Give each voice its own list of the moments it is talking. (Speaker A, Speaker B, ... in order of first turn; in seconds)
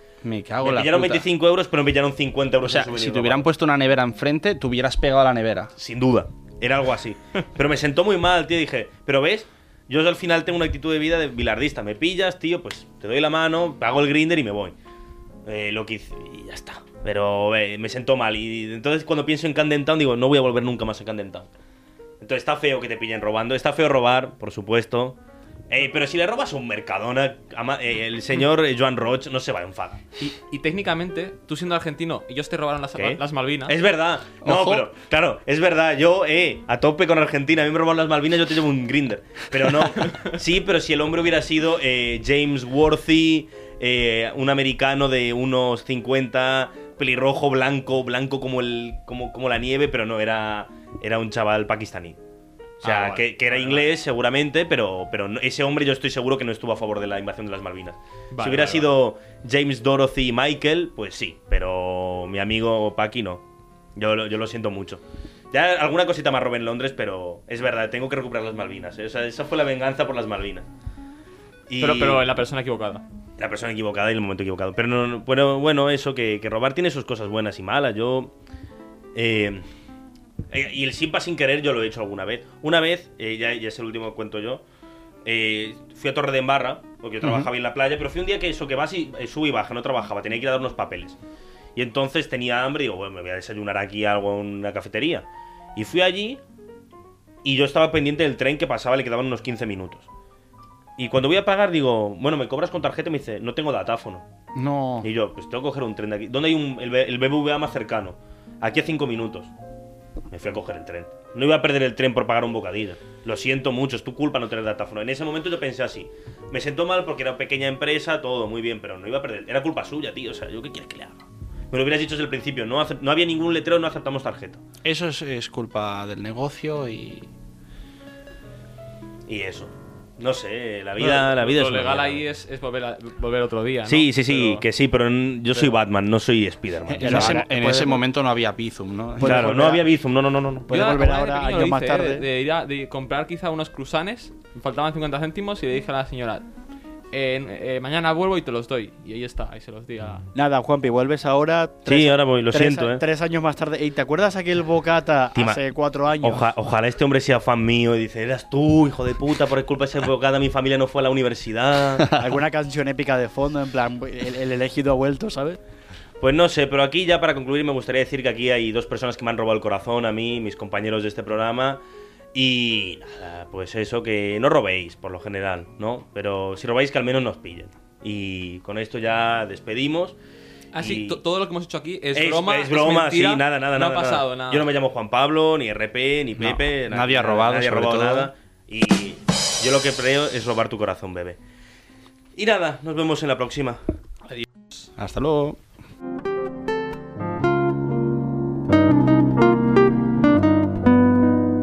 Speaker A: 0.2-1.3, 2.6-5.7, 34.4-34.9, 104.5-105.1, 124.8-127.3, 136.9-139.6, 186.4-188.3, 195.0-195.6
Speaker B: 0.6-3.5, 5.8-14.8, 15.4-21.5, 22.2-25.2, 25.7-30.0, 33.0-52.2, 52.8-63.5, 64.0-70.7, 71.7-72.2, 73.4-78.3, 79.1-79.7, 80.5-84.6, 85.2-91.2, 91.8-96.4, 97.4-100.1, 101.0-104.3, 105.0-109.5, 110.3-124.6, 129.3-132.2, 133.9-137.4, 139.2-140.7, 151.9-153.0, 155.4-155.6, 156.2-162.1, 166.2-171.8, 172.3-180.2, 180.8-181.2, 182.1-191.4, 192.3-193.8
Speaker C: 30.2-33.8, 52.8-53.9, 58.3-58.9, 71.8-73.0, 131.0-134.7, 140.7-146.5, 147.1-150.3, 180.7-184.7
Speaker D: 137.0-138.0, 139.2-139.9, 140.7-142.3, 150.3-156.5, 162.1-165.6